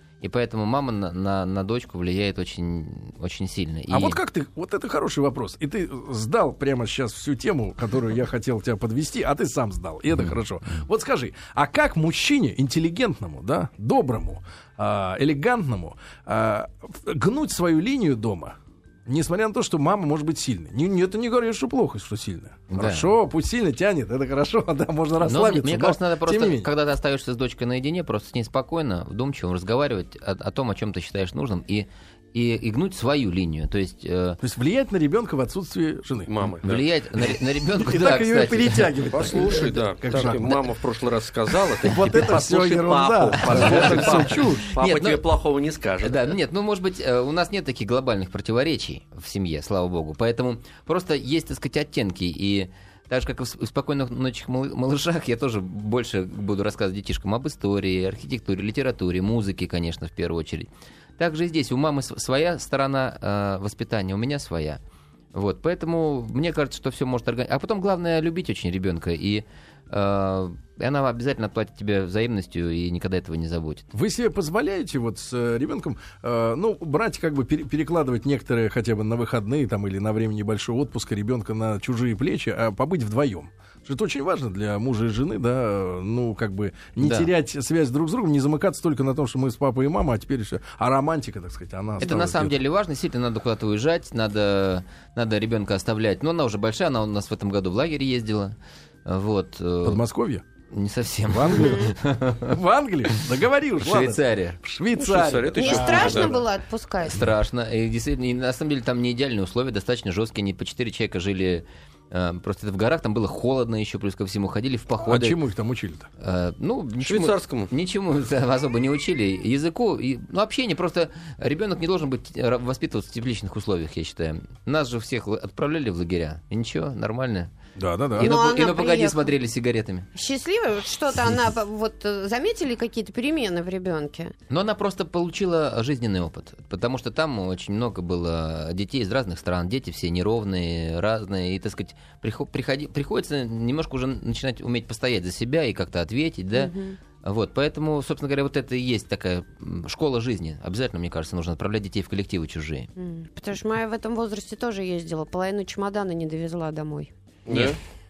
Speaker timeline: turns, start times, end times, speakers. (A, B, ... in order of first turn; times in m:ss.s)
0:00.2-0:04.2 A
0:03.9-0:26.7 B
0:22.7-0:23.1 A
0:25.2-0:34.4 A
0:34.4-0:36.3 B
0:36.3-0:36.8 C
0:36.6-0:39.4 A
0:37.8-0:40.6 B
0:39.1-0:46.4 C
0:40.1-0:40.5 A
0:41.8-0:44.8 B
0:43.5-0:45.2 A
0:46.0-1:04.8 A
1:05.3-1:13.9 A
1:13.9-1:32.6 B
1:27.0-1:27.3 A
1:32.0-1:40.0 A
1:39.8-1:40.4 B
1:40.7-1:42.6 A
1:41.3-1:46.4 B
1:43.8-1:44.6 A
1:45.0-1:46.4 C
1:45.6-1:47.3 D
1:47.0-1:55.4 A
1:55.0-1:56.1 B
1:56.2-2:07.5 A
1:57.0-1:57.7 C
2:07.8-2:08.3 B
2:08.2-2:10.1 A
2:08.2-2:09.2 D
2:10.1-2:14.3 D
2:14.5-2:32.9 A
2:26.5-2:27.0 D
2:33.0-2:37.1 D
2:37.4-2:37.8 C
2:37.5-2:37.8 A